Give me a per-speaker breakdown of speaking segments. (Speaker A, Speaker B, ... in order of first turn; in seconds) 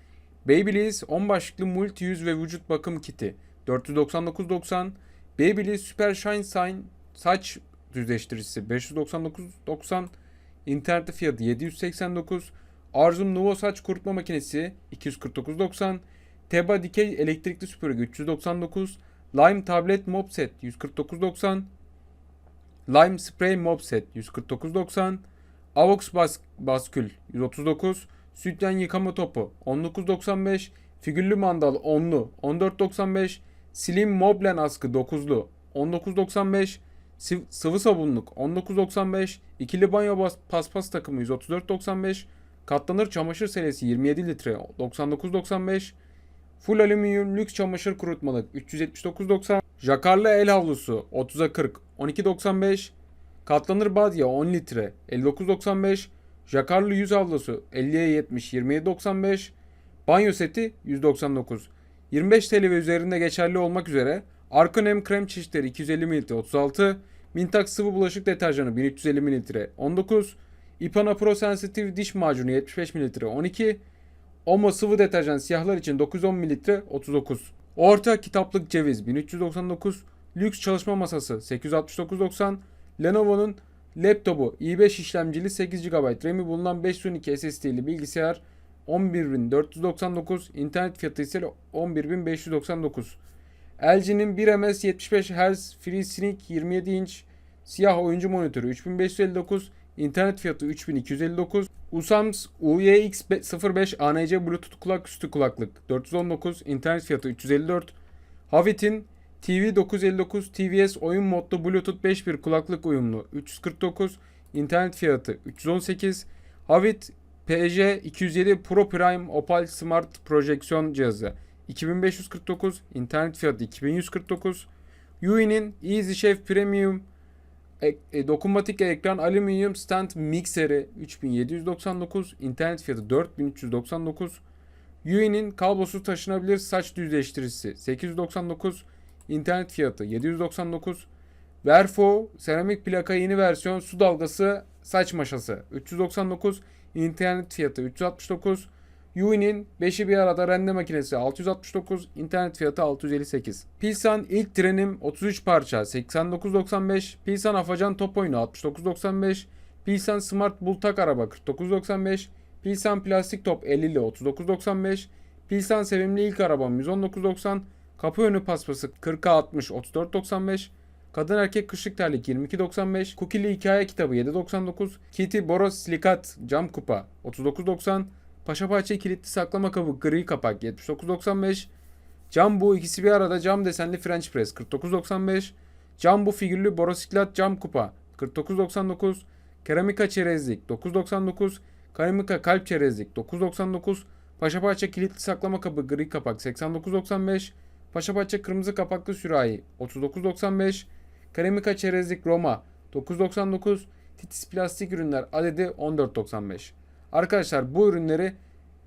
Speaker A: 0.4-10.1, 10.7-21.7, 22.9-46.0, 46.6-52.9, 53.4-59.5, 60.0-73.8, 74.5-93.2, 93.8-107.9, 108.5-124.7, 125.2-127.0, 127.8-134.4, 135.0-141.1, 141.6-181.7, 182.3-208.4